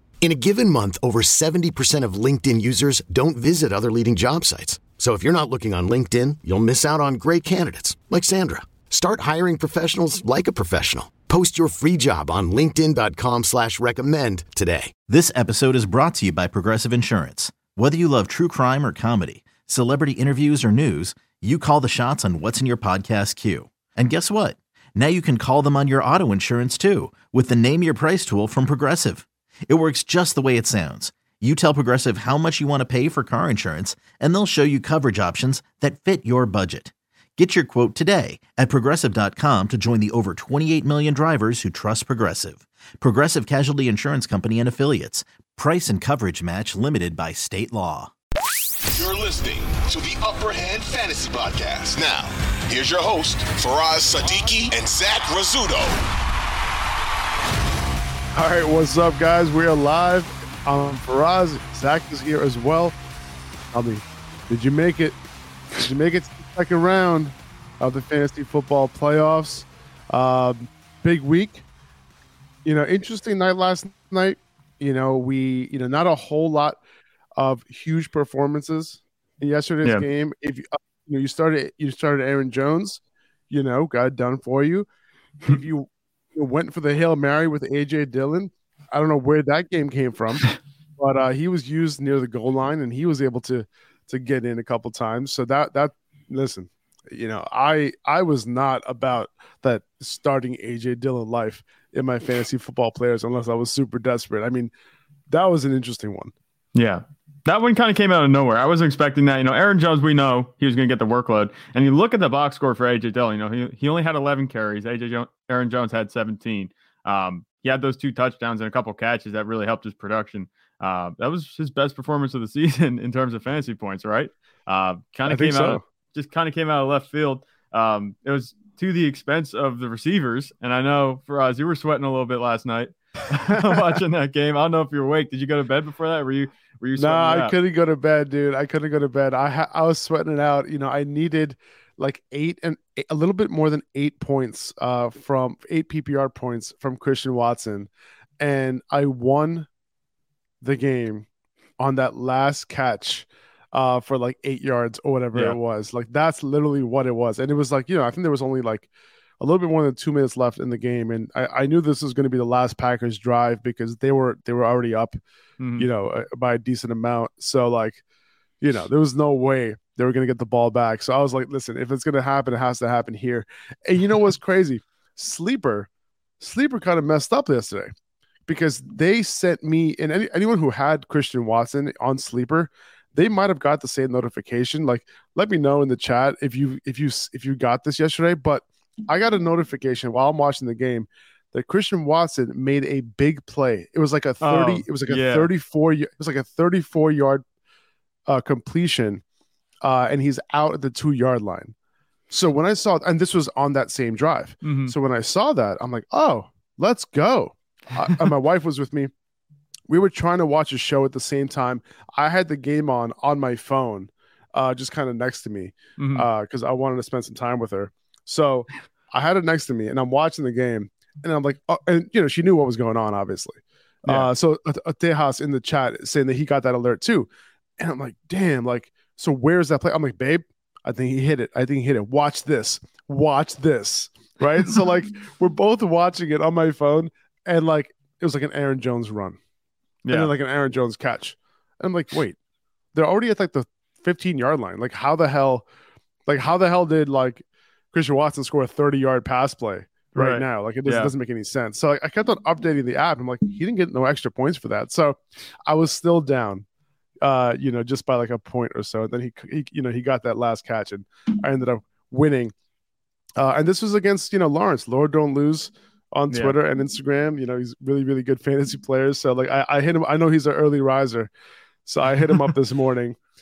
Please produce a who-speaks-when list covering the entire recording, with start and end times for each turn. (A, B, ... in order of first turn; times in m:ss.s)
0:00.2-0:14.9 A
0:15.1-0:48.1 B
0:49.3-0:50.4 C
0:51.2-0:51.7 C
0:51.9-0:52.9 A
0:52.8-0:54.6 C
0:54.2-0:55.6 A
0:58.4-1:03.0 D
1:03.7-1:05.2 D
1:05.8-1:11.6 D
1:12.6-1:16.8 D
1:17.4-1:24.9 D
1:25.4-1:44.7 D
1:45.3-1:46.3 D
1:46.7-2:17.6 E
2:05.3-2:05.8 D
2:17.0-2:27.9 D
2:28.4-2:29.7 D
2:30.6-2:31.3 D
2:31.8-2:38.9 D
2:39.4-2:45.2 D
2:45.6-2:45.9 E
2:45.8-2:48.0 D
2:48.6-2:55.9 D
2:56.4-2:57.9 D
2:58.5-3:17.4 D
3:14.4-3:15.5 E
3:18.3-3:19.2 D
3:19.8-3:21.7 D
3:22.3-3:29.1 D
3:24.6-3:24.9 E
3:29.9-3:59.4 D
3:36.0-3:36.3 E
4:00.0-4:00.3 E
4:00.1-4:02.4 D
4:02.9-4:05.7 D
4:06.3-4:16.6 D
4:10.1-4:11.1 E
4:17.2-4:22.5 D
4:23.4-4:31.3 D
4:26.3-4:26.6 E
4:31.9-4:33.2 D